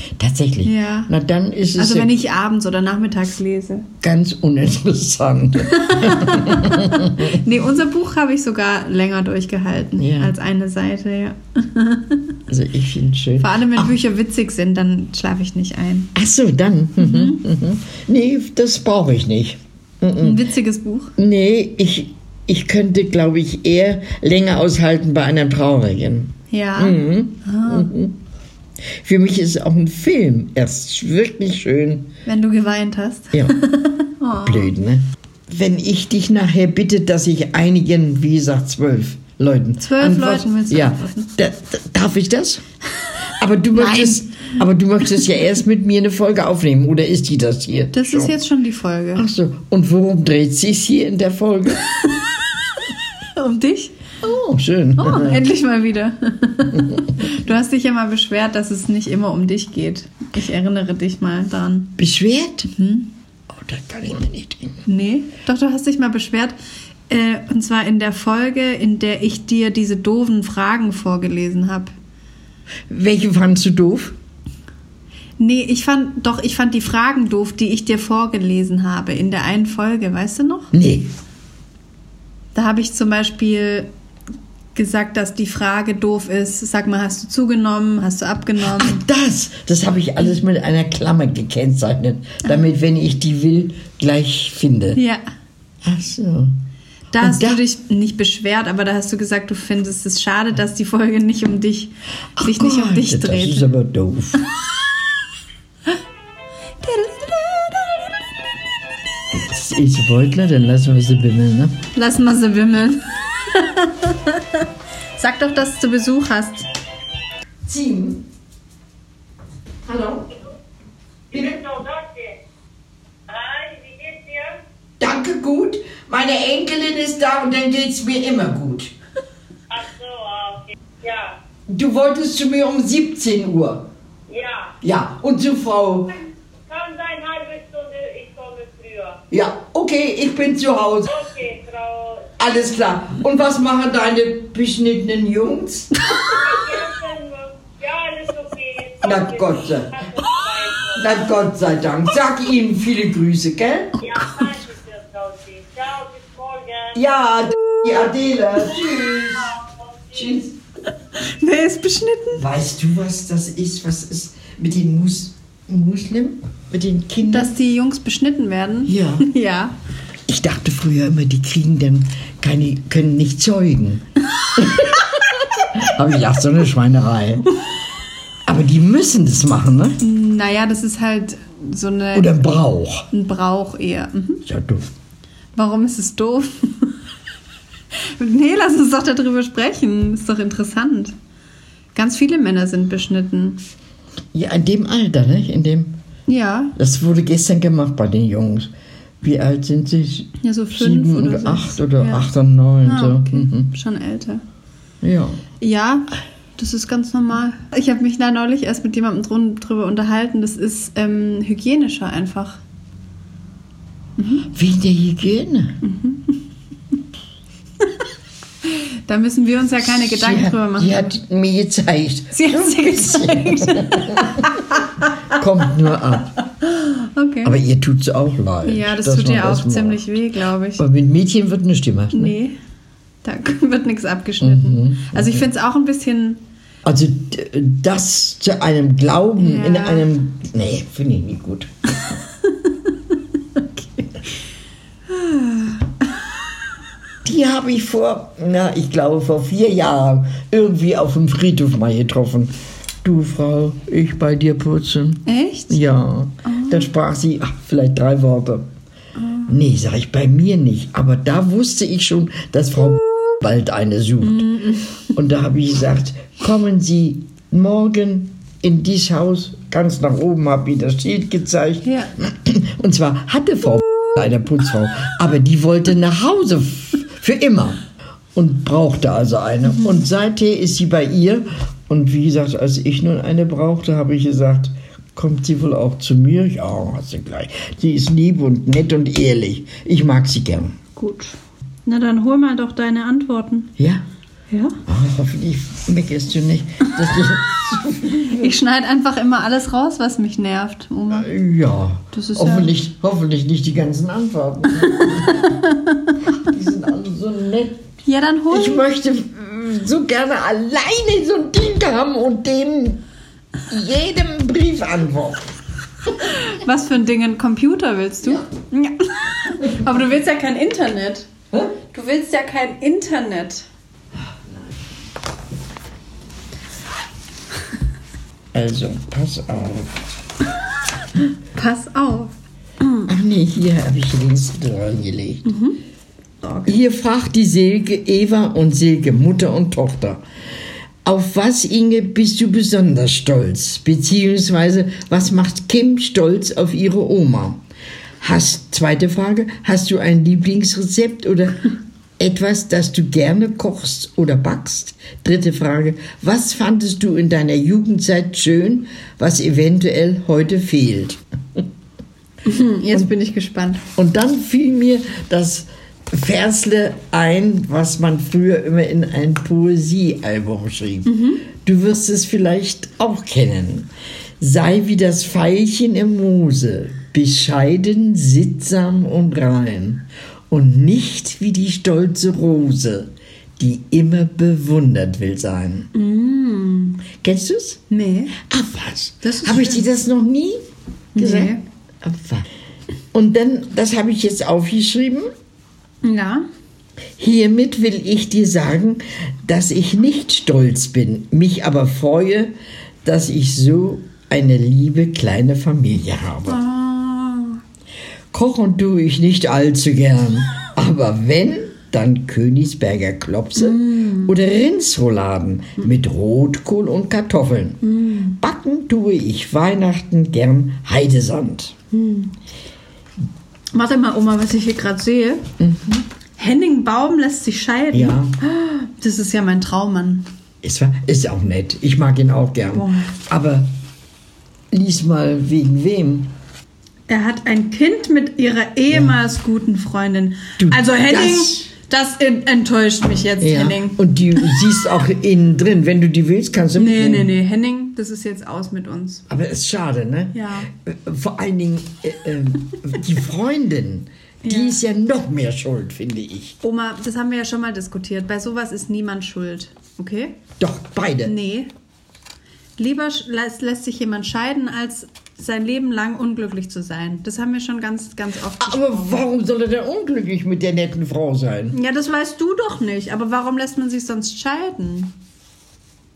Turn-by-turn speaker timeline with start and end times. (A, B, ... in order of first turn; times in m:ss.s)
0:00.2-0:02.1 A
0:00.6-0:01.1 B
0:01.8-0:03.9 B
0:04.0-0:07.4 A
0:05.6-0:12.4 B
0:10.0-0:10.3 A
0:12.5-0:13.9 A
0:13.4-0:16.1 B
0:16.1-0:20.4 A
0:17.0-0:17.4 B
0:20.2-0:21.1 B
0:21.2-0:28.2 A
0:26.5-0:27.9 B
0:28.9-0:32.1 A
0:32.2-0:34.7 B
0:34.4-0:42.6 A
0:39.8-0:41.3 B
0:43.4-0:48.3 A
0:43.7-0:44.6 B
0:47.9-0:49.2 B
0:49.1-0:51.9 A
0:53.4-0:54.0 B
0:54.2-0:55.5 A
0:55.0-1:02.0 B
1:02.0-1:02.7 A
1:02.7-1:03.1 B
1:03.5-1:04.8 A
1:04.8-1:06.5 B
1:07.1-1:11.9 B
1:12.9-1:14.2 A
1:15.4-1:20.7 B
1:20.7-1:21.1 A
1:22.5-1:23.9 B
1:24.7-1:29.0 B
1:28.6-1:35.0 A
1:34.9-1:35.2 B
1:35.8-1:36.5 A
1:37.1-1:43.6 B
1:37.2-1:37.6 A
1:42.3-1:44.4 A
1:46.8-1:48.2 B
1:49.3-1:51.8 A
1:51.9-1:56.7 B
1:57.6-1:58.2 A
1:59.8-2:00.3 A
2:01.3-2:02.4 C
2:01.3-2:01.6 A
2:03.3-2:04.6 C
2:05.0-2:08.9 A
2:09.7-2:11.4 C
2:11.7-2:13.9 A
2:14.3-2:14.8 C
2:14.8-2:16.2 A
2:16.7-2:19.2 C
2:19.3-2:21.1 A
2:21.1-2:22.5 C
2:22.4-2:26.0 A
2:26.0-2:26.4 B
2:26.2-2:31.2 C
2:29.0-2:30.0 A
2:31.0-2:33.9 A
2:34.0-2:34.6 B
2:34.0-2:37.0 C
2:36.9-2:39.6 A
2:39.3-2:40.3 C
2:40.1-2:40.5 A
2:41.1-2:42.4 B
2:42.3-2:47.5 A
2:47.2-2:49.7 B
2:48.8-2:49.3 A
2:50.3-2:57.5 A
2:58.4-3:00.0 A
3:00.0-3:02.4 B
3:02.1-3:03.1 A
3:03.1-3:04.4 B
3:04.4-3:04.9 A
3:05.5-3:07.0 B
3:07.9-3:11.1 B
3:11.9-3:13.6 B
3:14.3-3:16.0 A
3:16.3-3:16.7 B
3:16.8-3:18.7 A
3:19.2-3:23.7 A
3:20.4-3:22.3 B
3:22.8-3:24.4 B
3:25.0-3:25.4 A
3:25.6-3:32.6 B
3:34.2-3:34.4 B
3:34.5-3:35.8 A
3:35.8-3:36.4 B
3:38.6-3:41.0 B
3:39.8-3:46.4 A
3:42.3-3:45.4 B
3:46.6-3:47.6 B
3:47.4-3:50.0 A
3:48.6-3:50.8 B
3:50.8-3:52.4 A
3:52.1-3:52.5 B
3:53.2-3:56.4 B
3:54.4-3:55.4 A
3:56.8-4:01.7 A
3:59.4-4:00.1 B
4:02.4-4:04.1 B
4:05.1-4:06.3 B
4:07.2-4:18.7 A
4:15.2-4:15.8 B
4:16.4-4:16.9 B
4:19.2-4:19.5 B
4:19.5-4:37.8 A
4:24.2-4:25.1 B
4:31.8-4:32.1 B
4:38.3-4:50.8 A
4:51.0-4:53.7 B
4:53.8-4:54.0 A
4:54.5-4:54.8 B
4:54.8-4:58.5 A
4:58.2-5:01.3 B
5:01.1-5:05.6 A
5:02.1-5:02.7 B
5:04.8-5:06.2 B
5:06.4-5:07.8 A
5:08.0-5:08.8 B
5:08.5-5:13.0 A
5:13.7-5:15.5 A
5:16.2-5:21.3 B
5:21.9-5:23.7 B
5:28.5-5:30.0 A
5:31.5-5:32.3 B
5:33.0-5:35.5 A
5:35.4-5:35.8 B
5:36.4-5:36.8 B
5:36.7-5:40.2 A
5:41.0-5:47.6 A
5:48.2-6:01.6 A
6:02.4-6:03.8 B
6:04.0-6:25.9 A
6:11.0-6:11.4 B
6:25.9-6:27.0 B
6:27.2-6:27.8 A
6:27.9-6:28.4 B
6:28.4-6:30.6 A
6:29.2-6:29.9 B
6:31.1-6:31.6 B
6:31.2-6:32.5 A
6:33.1-6:35.3 A
6:36.0-6:36.4 B
6:37.2-6:42.5 A
6:43.0-6:46.6 A
6:46.4-6:47.6 B
6:48.3-6:57.8 A
6:53.6-6:54.3 B
6:57.8-6:58.4 B
6:58.4-7:01.8 A
7:01.9-7:02.3 B
7:03.7-7:05.5 B
7:05.6-7:06.0 A
7:06.4-7:10.3 B
7:07.9-7:08.4 A
7:10.6-7:13.7 A
7:12.7-7:13.1 B
7:14.7-7:16.3 A
7:17.1-7:24.5 B
7:20.6-7:21.6 A
7:23.4-7:27.3 A
7:26.8-7:29.2 B
7:29.3-7:36.6 A
7:30.3-7:30.7 B
7:34.4-7:34.8 B
7:36.6-7:40.4 B
7:40.6-7:41.3 A
7:41.2-7:41.7 B
7:42.8-7:49.2 B
7:48.6-7:51.8 A
7:51.7-7:55.1 B